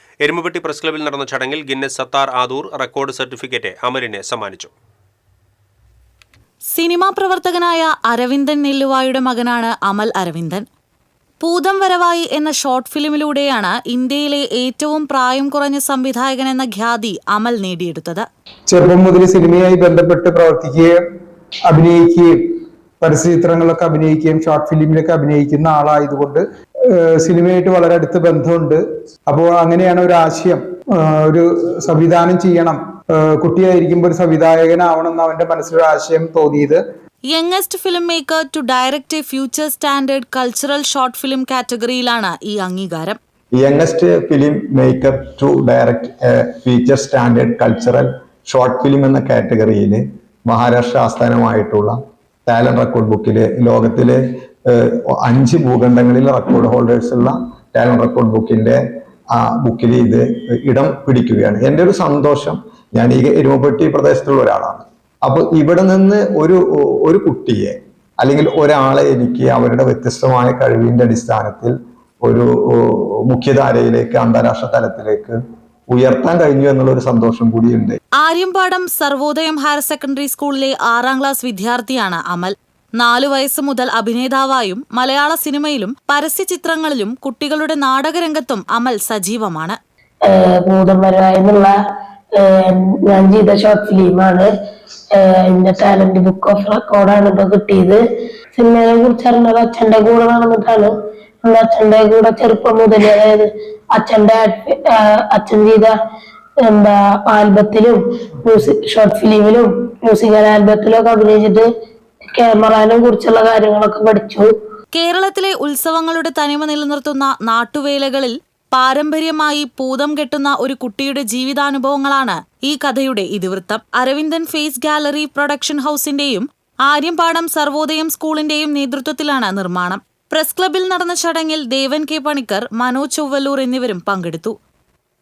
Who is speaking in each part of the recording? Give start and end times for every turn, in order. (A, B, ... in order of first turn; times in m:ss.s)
0:00.2-0:04.7 A
0:06.7-0:10.7 B
0:11.4-0:18.3 B
0:18.7-0:21.0 C
0:21.7-0:22.4 C
0:23.0-0:36.8 C
0:37.3-0:43.2 B
0:43.6-0:58.8 D
0:59.3-1:15.4 D
1:15.9-1:18.0 D
1:18.2-1:29.8 B
1:30.3-1:31.7 E
1:32.4-1:34.5 E
1:35.2-1:38.0 E
1:38.6-1:45.9 E
1:46.7-1:51.7 E
1:52.3-1:54.5 E
1:54.9-2:14.5 B